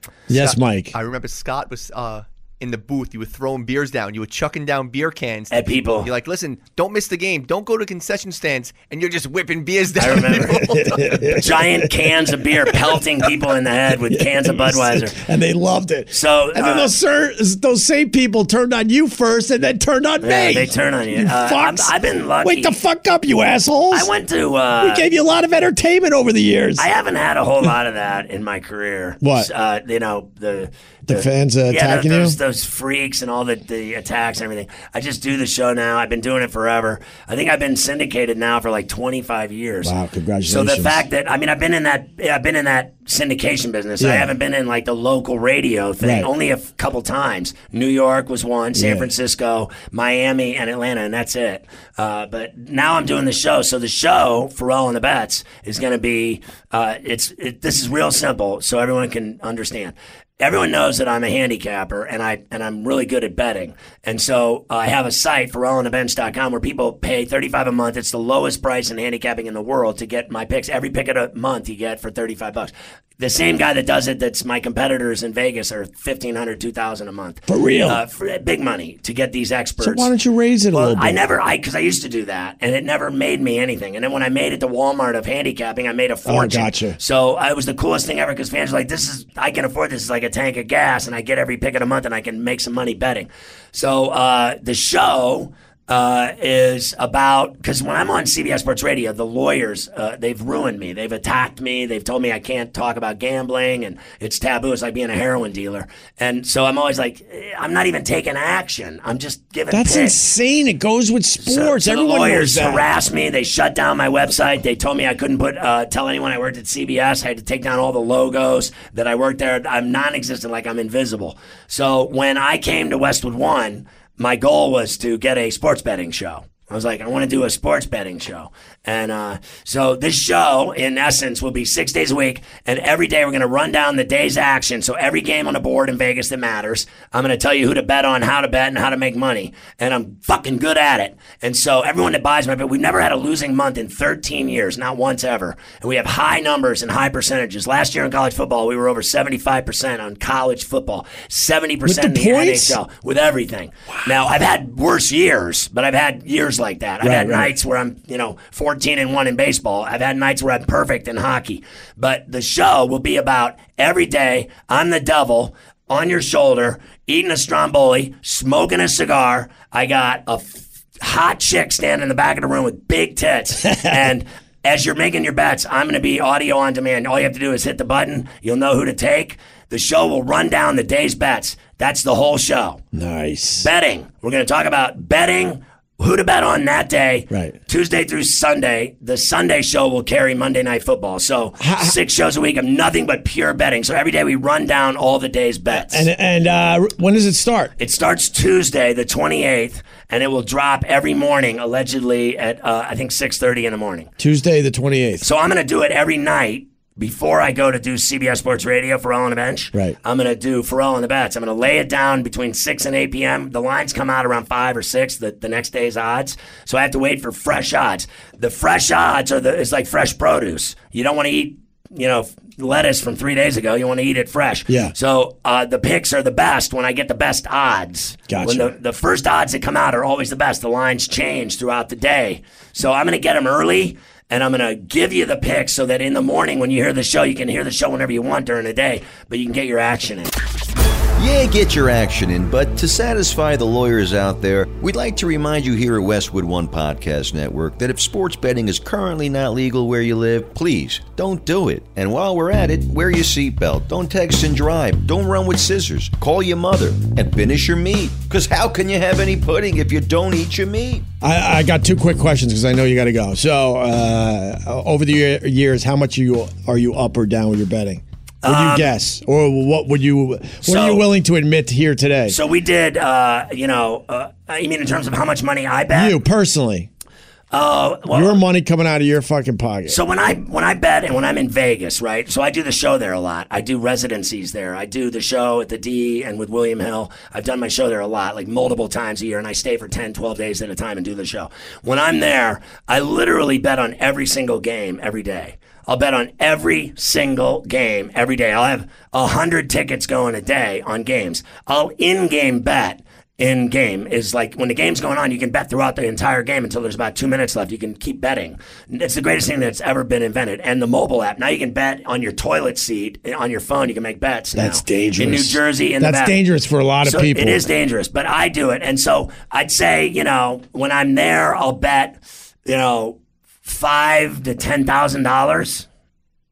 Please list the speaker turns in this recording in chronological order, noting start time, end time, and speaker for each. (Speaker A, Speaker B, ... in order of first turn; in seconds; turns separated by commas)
Speaker A: 0.3-0.9, Speaker B: 0.3-11.4, Speaker C: 5.5-6.1, Speaker C: 9.9-10.7, Speaker A: 10.5-12.1, Speaker C: 11.2-15.2, Speaker A: 14.1-24.1, Speaker C: 16.1-16.9, Speaker C: 20.2-22.7, Speaker C: 23.9-25.0, Speaker A: 24.8-26.9, Speaker C: 26.8-39.9, Speaker A: 29.2-29.5, Speaker A: 31.1-32.4, Speaker A: 39.8-41.0, Speaker C: 40.5-80.1, Speaker A: 44.0-44.3, Speaker A: 46.0-46.3, Speaker A: 48.7-49.1, Speaker A: 77.5-78.0, Speaker A: 79.8-81.2, Speaker C: 80.7-110.2, Speaker A: 86.2-87.0, Speaker A: 109.7-112.9, Speaker C: 111.4-182.8, Speaker A: 151.8-152.8, Speaker A: 157.0-157.5, Speaker A: 173.6-174.0, Speaker A: 182.9-183.7, Speaker C: 183.6-196.1, Speaker A: 187.3-187.6, Speaker A: 191.6-192.0, Speaker A: 195.7-197.7, Speaker C: 197.8-204.1, Speaker A: 204.2-205.2, Speaker C: 205.2-240.3, Speaker A: 224.7-224.9, Speaker A: 228.3-228.7, Speaker D: 241.2-261.1, Speaker A: 261.2-272.4, Speaker C: 268.4-268.9, Speaker C: 270.6-271.1, Speaker C: 272.3-276.2, Speaker A: 275.9-276.9, Speaker C: 277.5-278.4, Speaker A: 278.1-280.0, Speaker C: 279.9-316.4, Speaker A: 314.5-317.7, Speaker C: 317.0-325.9